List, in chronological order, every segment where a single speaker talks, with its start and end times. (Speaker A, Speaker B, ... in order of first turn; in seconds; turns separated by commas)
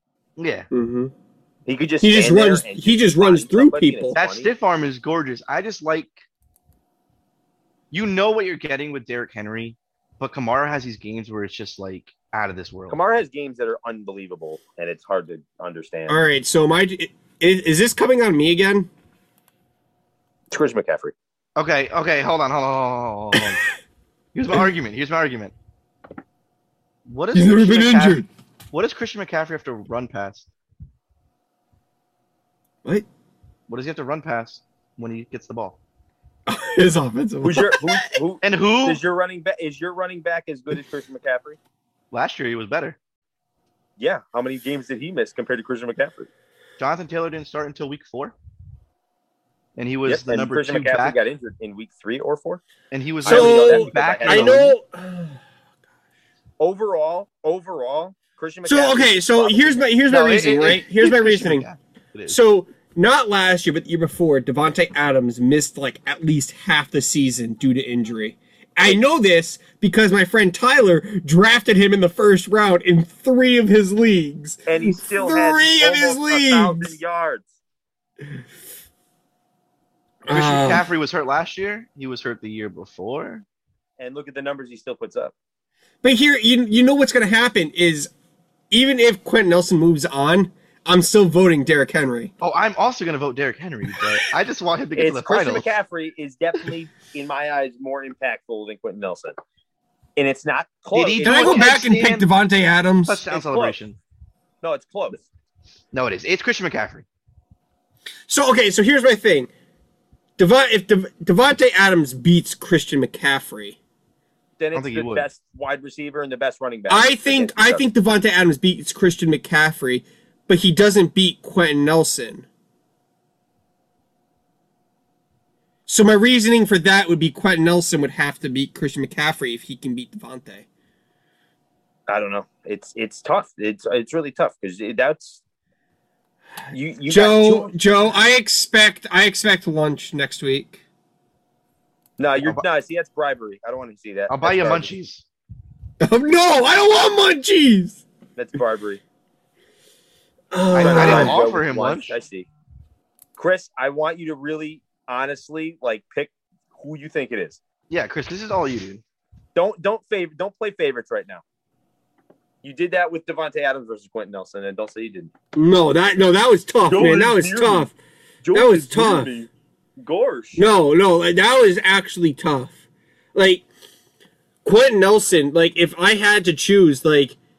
Speaker A: 0.4-0.7, Speaker B: 0.7-1.1, Speaker C: 1.7-4.5, Speaker B: 2.0-4.2, Speaker A: 4.1-6.1, Speaker A: 7.9-13.0, Speaker C: 12.9-16.2, Speaker B: 16.1-18.9, Speaker C: 20.5-21.1, Speaker A: 21.6-23.6, Speaker A: 24.3-25.5, Speaker A: 27.1-30.5, Speaker B: 27.3-28.3, Speaker A: 33.7-35.8, Speaker B: 36.5-38.1, Speaker C: 37.4-41.6, Speaker A: 38.4-39.0, Speaker A: 42.1-43.0, Speaker C: 44.0-46.3, Speaker A: 46.8-48.4, Speaker A: 49.8-51.2, Speaker C: 50.1-52.6, Speaker A: 52.9-54.7, Speaker C: 53.2-54.6, Speaker B: 53.3-55.4, Speaker C: 56.6-59.9, Speaker B: 58.7-61.6, Speaker A: 60.1-62.4, Speaker B: 62.3-77.0, Speaker C: 74.7-77.5, Speaker B: 80.3-80.9, Speaker A: 80.3-83.5, Speaker C: 84.0-85.3, Speaker B: 86.0-88.1, Speaker B: 88.7-92.3, Speaker A: 92.4-95.7, Speaker C: 95.0-99.3, Speaker C: 100.2-101.7, Speaker A: 100.9-102.3, Speaker B: 101.2-103.2, Speaker A: 103.1-104.0, Speaker C: 103.3-103.8, Speaker C: 104.6-105.2, Speaker A: 105.9-107.1, Speaker B: 108.3-109.5, Speaker B: 110.4-113.8, Speaker C: 114.6-117.8, Speaker A: 114.7-115.3, Speaker B: 116.9-122.5, Speaker B: 125.9-130.7, Speaker C: 132.1-135.4, Speaker C: 136.7-137.8, Speaker B: 137.1-140.8, Speaker C: 142.2-144.9, Speaker A: 144.3-145.3, Speaker B: 146.0-148.0, Speaker C: 148.4-149.0, Speaker B: 150.5-151.4, Speaker A: 150.7-152.1, Speaker C: 150.8-152.5, Speaker C: 153.4-157.6, Speaker A: 157.9-159.0, Speaker C: 159.6-161.4, Speaker C: 162.6-165.3, Speaker B: 165.5-167.9, Speaker C: 166.9-167.9, Speaker C: 168.4-170.6, Speaker B: 168.5-169.3, Speaker B: 170.6-172.7, Speaker B: 173.3-173.7, Speaker B: 174.6-177.4